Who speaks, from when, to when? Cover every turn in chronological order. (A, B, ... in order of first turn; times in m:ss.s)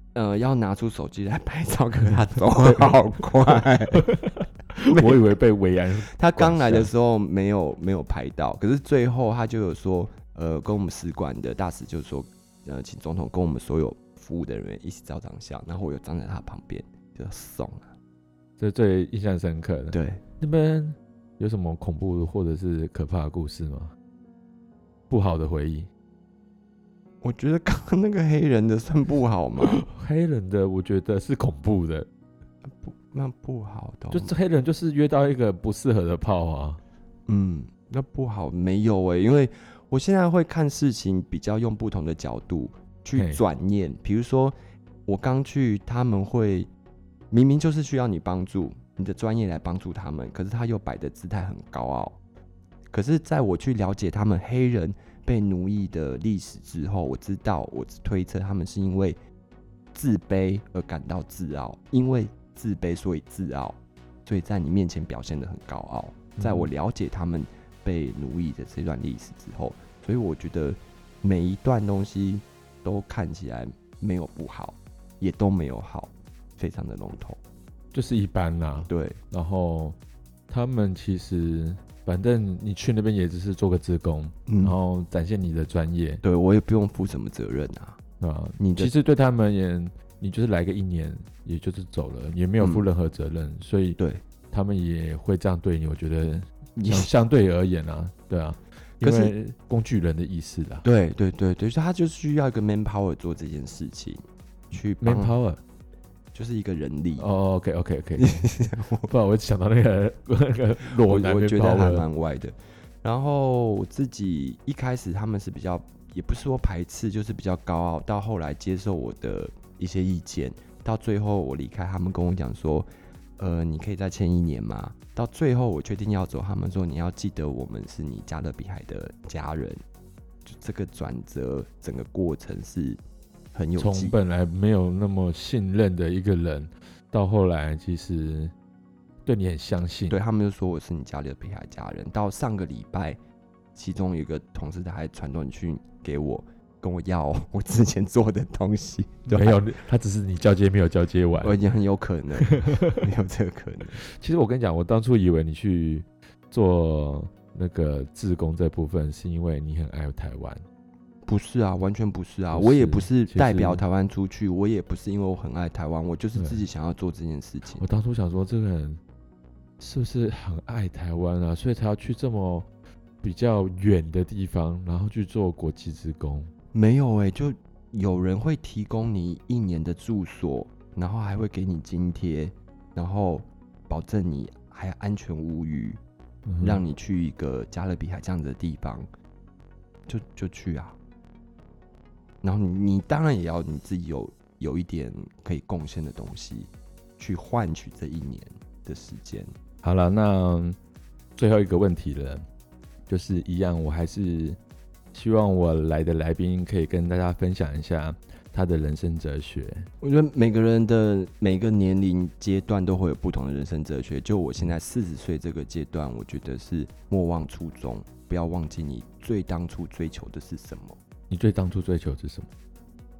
0:00.1-0:04.1 A
0:02.6-0:06.9 B
0:04.8-0:05.2 A
0:06.1-0:17.9 A
0:18.6-0:23.9 B
0:19.9-0:20.2 A
0:25.1-0:25.9 B
0:27.2-0:29.8 A
0:29.6-0:32.1 B
0:32.7-0:34.3 A
0:34.1-0:36.8 B
0:37.3-0:46.7 A
0:43.2-0:43.4 B
0:47.3-0:52.2 A
0:52.9-0:59.2 A
0:59.9-1:17.4 A
1:06.4-1:06.7 B
1:17.9-1:20.0 B
1:18.8-1:19.2 A
1:20.5-1:26.2 B
1:24.5-1:24.8 A
1:26.2-1:28.0 A
1:28.2-1:34.0 B
1:28.6-1:28.9 A
1:32.6-1:32.8 A
1:34.5-1:40.8 B
1:36.8-1:37.1 A
1:39.0-1:39.3 A
1:40.8-1:45.4 A
1:45.0-1:45.6 B
1:46.3-1:47.3 A
1:47.2-1:48.5 B
1:48.2-1:49.1 A
1:49.1-1:52.0 B
1:51.0-2:09.8 A
2:10.4-2:13.0 A
2:13.5-2:14.2 A
2:13.8-2:18.5 B
2:19.2-2:20.2 B
2:20.1-2:23.2 A
2:23.7-2:29.6 A
2:29.3-2:31.6 B
2:31.4-2:34.0 A
2:32.5-2:33.0 B
2:34.0-2:40.6 B
2:41.2-2:47.8 A
2:42.5-2:43.8 B
2:46.4-2:46.6 B
2:47.8-2:49.0 B
2:49.8-2:52.7 B
2:53.2-2:56.5 B
2:56.7-3:06.0 A
3:06.5-3:06.8 B
3:06.6-3:09.1 A
3:10.1-3:11.0 A
3:12.4-3:19.5 A
3:19.8-3:20.8 B
3:21.3-3:22.4 B
3:23.1-3:24.6 B
3:25.1-3:29.8 B
3:30.0-3:41.0 A
3:41.3-3:42.5 B